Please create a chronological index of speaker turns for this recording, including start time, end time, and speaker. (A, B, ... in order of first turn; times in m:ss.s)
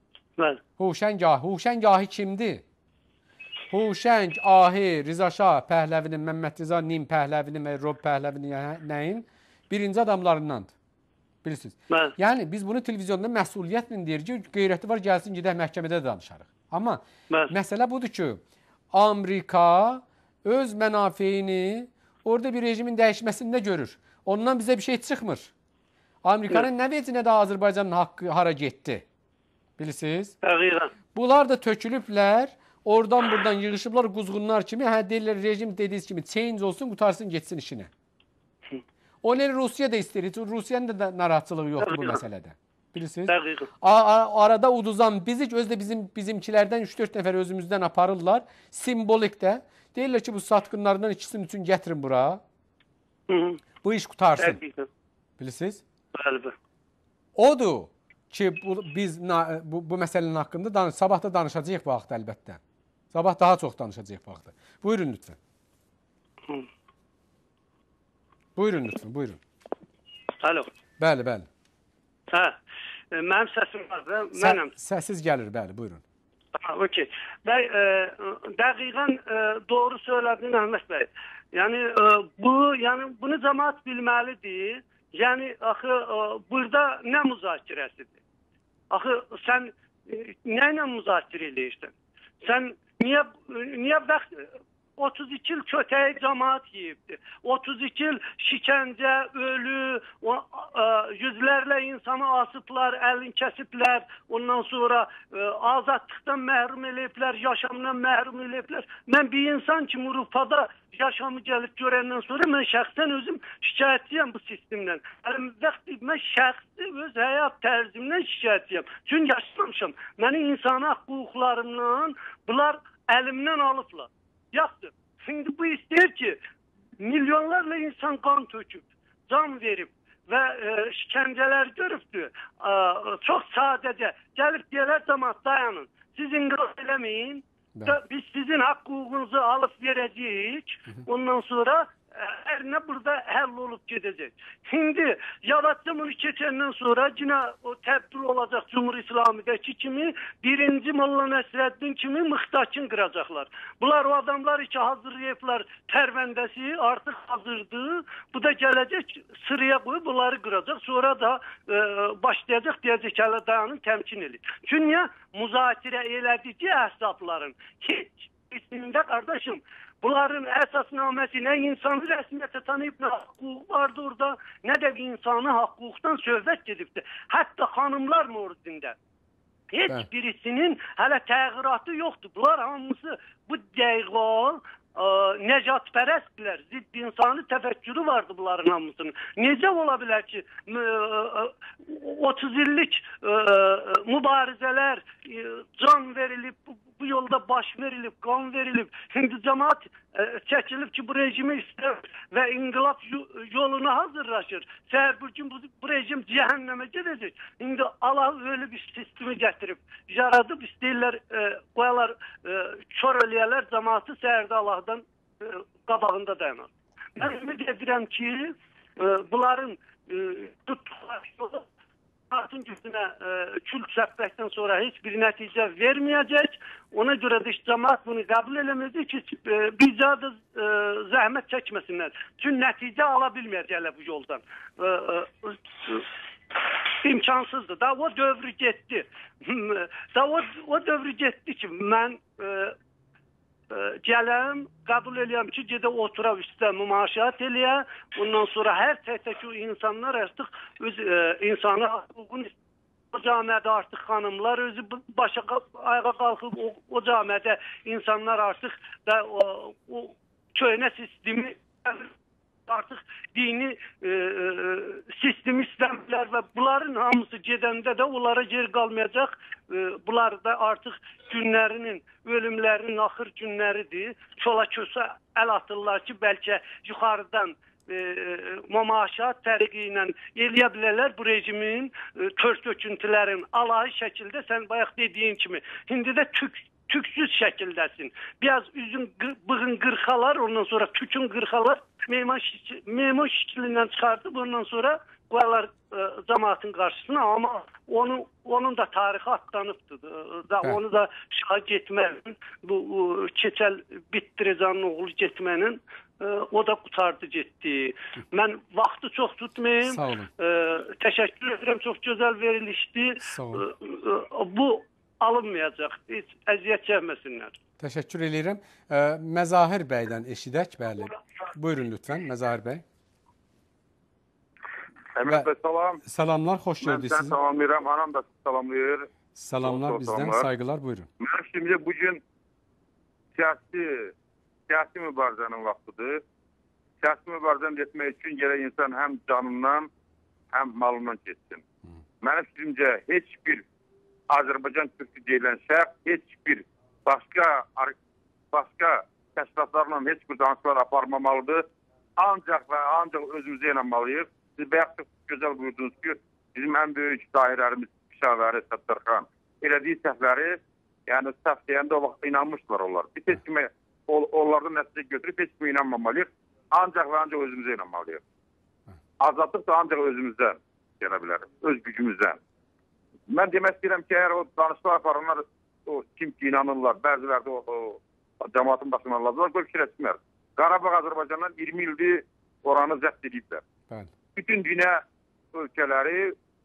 0:00.8-0:02.6 A
0:03.7-0:10.7 A
0:11.4-0:25.5 A
0:26.2-0:29.0 A
0:29.8-0:30.4 A
0:30.4-0:30.9 B
0:31.1-0:37.9 A
0:39.2-0:52.4 A
0:41.9-0:42.2 B
0:43.3-0:43.7 B
0:53.3-0:53.6 B
0:53.8-0:54.6 A
0:54.4-0:54.9 B
0:55.4-0:55.8 A
0:56.2-0:56.5 B
0:57.4-1:02.6 A
1:03.1-1:05.4 A
1:08.6-1:09.4 A
1:10.4-1:10.7 B
1:11.0-1:11.5 A
1:12.3-1:12.6 B
1:13.1-1:14.7 B
1:14.4-1:16.0 A
1:16.6-1:28.1 B
1:28.9-1:34.5 B
1:35.0-2:06.4 B
2:07.0-2:59.0 B
2:59.7-3:41.6 B
3:42.3-4:02.8 B
4:03.7-4:12.5 B
4:13.1-4:22.1 B
4:22.7-5:17.6 B
5:09.8-5:10.3 A
5:13.2-5:13.6 A
5:17.8-5:22.8 A
5:25.2-5:26.0 C
5:26.0-5:27.4 A
5:26.8-5:29.1 C
5:29.4-5:31.1 A
5:29.6-5:30.5 C
5:31.2-5:32.2 C
5:33.4-5:34.1 C
5:34.7-5:36.2 C
5:37.0-5:39.9 C
5:40.5-5:41.6 C
5:42.2-5:43.6 C
5:44.3-5:48.0 C
5:48.5-5:51.6 C
5:52.2-6:08.2 C
6:09.2-6:12.4 C
6:13.3-6:23.6 C
6:24.4-6:25.0 C
6:25.6-6:26.4 C